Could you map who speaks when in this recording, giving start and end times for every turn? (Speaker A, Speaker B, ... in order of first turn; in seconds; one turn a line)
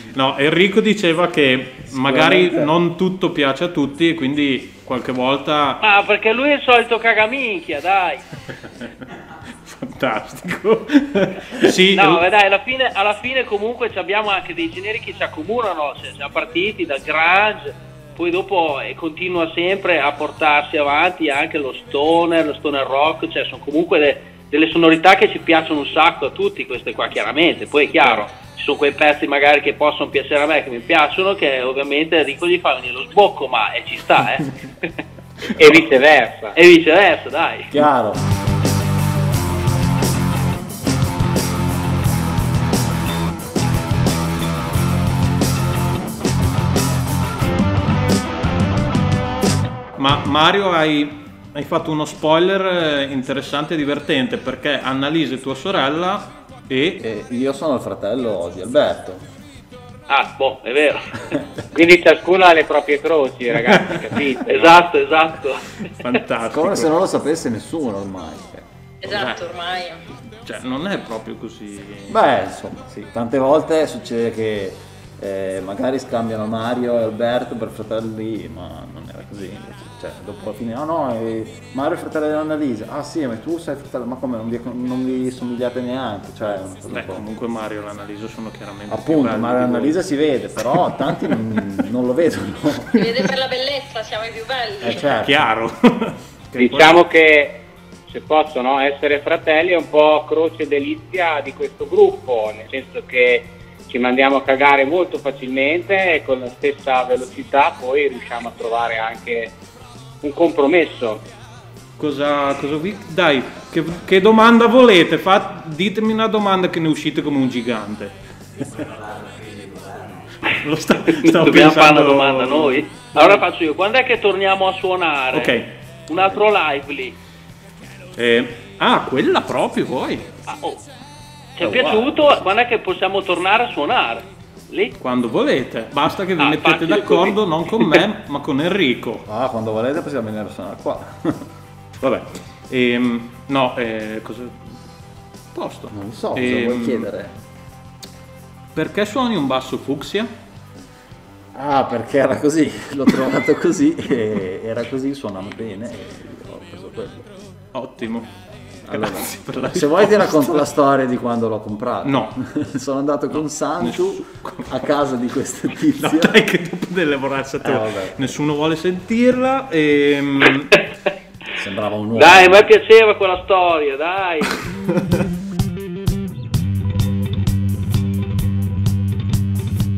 Speaker A: 0.1-5.8
Speaker B: 1.9-2.7
Speaker C: 5.8-8.2
Speaker A: 8.8-9.1
Speaker A: 9.6-12.2
Speaker C: 11.9-35.0
Speaker D: 35.5-36.6
Speaker C: 36.5-37.7
Speaker B: 37.7-38.2
Speaker A: 50.0-57.0
Speaker B: 57.0-59.2
Speaker C: 60.1-61.4
Speaker D: 61.7-64.8
Speaker A: 63.7-64.0
Speaker C: 64.5-65.7
Speaker A: 65.8-66.9
Speaker B: 66.5-68.7
Speaker E: 69.0-70.0
Speaker A: 69.0-69.5
Speaker A: 70.4-72.2
Speaker B: 72.1-87.2
Speaker A: 86.9-90.0
Speaker B: 88.9-93.0
Speaker A: 90.7-91.3
Speaker E: 93.0-95.0
Speaker B: 94.8-95.4
Speaker A: 94.9-97.0
Speaker D: 96.6-109.5
Speaker D: 110.2-111.2
Speaker A: 112.0-118.1
Speaker B: 118.7-120.2
Speaker A: 120.5-122.8
Speaker C: 121.1-125.5
Speaker A: 125.3-125.7
Speaker C: 126.1-127.2
Speaker A: 128.2-130.3
Speaker C: 130.5-130.8
Speaker C: 131.6-134.9
Speaker B: 131.6-132.2
Speaker A: 135.0-139.2
Speaker C: 136.4-138.0
Speaker B: 139.2-141.4
Speaker A: 142.0-144.6
Speaker A: 145.5-147.1
Speaker B: 145.9-147.3
Speaker A: 148.7-150.3
Speaker B: 151.5-157.3
Speaker A: 157.7-158.3
Speaker B: 158.8-166.4
Speaker A: 158.9-160.7
Speaker A: 162.0-162.3
Speaker A: 163.3-164.7
Speaker A: 165.9-170.8
Speaker B: 167.6-168.3
Speaker B: 171.5-172.7
Speaker C: 172.1-174.6